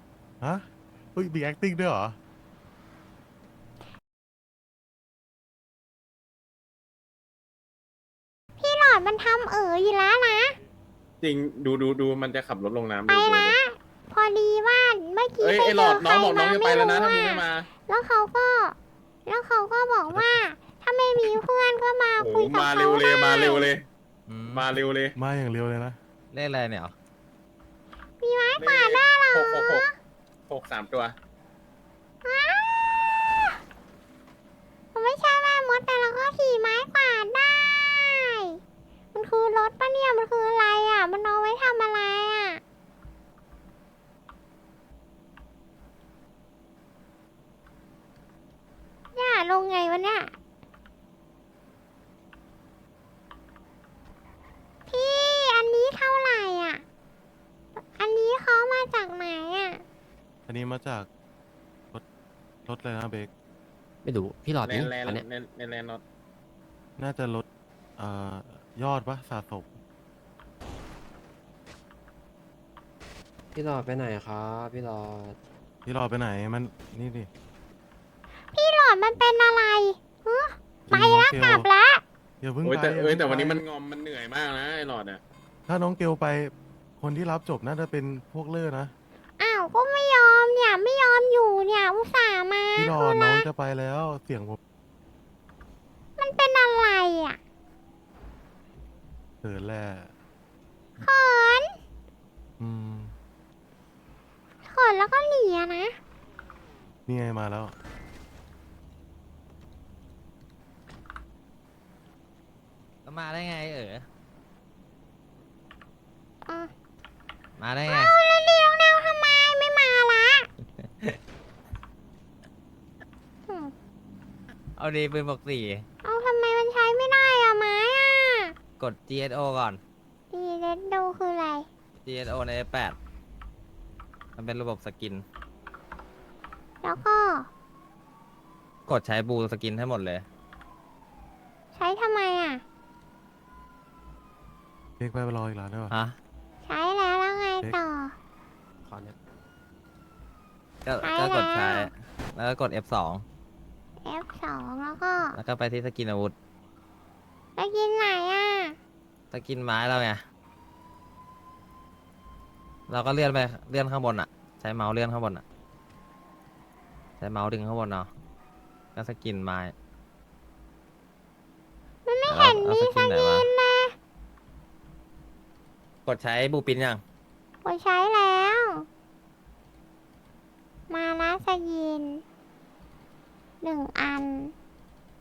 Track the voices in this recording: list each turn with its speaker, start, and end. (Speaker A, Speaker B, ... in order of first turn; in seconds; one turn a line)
Speaker A: 0.4-2.2
Speaker B: 8.6-10.6
Speaker C: 11.2-13.6
Speaker B: 13.1-23.7
Speaker C: 15.4-17.6
Speaker C: 22.2-23.7
Speaker D: 24.3-24.7
Speaker C: 24.6-25.1
Speaker A: 25.1-26.0
Speaker D: 26.3-26.9
Speaker B: 28.2-29.9
Speaker C: 28.6-29.9
Speaker C: 30.5-31.1
Speaker B: 32.2-32.9
Speaker B: 34.9-38.6
Speaker B: 39.1-42.6
Speaker B: 49.1-50.3
Speaker B: 54.9-56.8
Speaker B: 57.8-59.8
Speaker A: 60.5-61.1
Speaker A: 62.6-63.3
Speaker E: 64.0-65.2
Speaker C: 64.7-66.0
Speaker A: 67.0-67.4
Speaker A: 68.0-69.8
Speaker E: 73.5-75.4
Speaker A: 75.8-77.3
Speaker B: 78.5-82.0
Speaker A: 80.9-81.7
Speaker A: 82.4-83.7
Speaker C: 82.7-85.2
Speaker A: 85.7-88.9
Speaker B: 89.4-93.5
Speaker A: 92.8-94.6
Speaker B: 96.2-97.4
Speaker A: 99.4-100.1
Speaker B: 101.0-101.8
Speaker A: 102.6-103.1
Speaker B: 104.6-106.0
Speaker A: 107.1-107.7
Speaker D: 113.0-114.0
Speaker D: 117.6-118.1
Speaker B: 117.9-120.5
Speaker D: 120.8-121.2
Speaker B: 123.5-123.7
Speaker D: 124.8-125.8
Speaker B: 126.0-128.5
Speaker D: 128.8-129.8
Speaker B: 130.3-131.7
Speaker D: 132.0-132.9
Speaker D: 134.3-135.2
Speaker B: 136.8-137.5
Speaker D: 138.8-140.2
Speaker B: 141.7-142.6
Speaker A: 145.0-145.9
Speaker D: 145.9-146.2
Speaker B: 146.6-148.1
Speaker E: 148.8-149.2
Speaker D: 150.8-153.2
Speaker B: 151.0-151.9
Speaker B: 154.0-155.4
Speaker D: 155.3-156.3
Speaker B: 157.6-158.8
Speaker D: 159.3-160.2
Speaker D: 162.9-165.4
Speaker D: 167.2-168.1
Speaker D: 168.9-169.7
Speaker B: 172.1-173.9
Speaker D: 172.3-173.5
Speaker D: 176.1-177.0
Speaker B: 177.6-178.8
Speaker B: 180.9-182.2
Speaker B: 183.6-184.5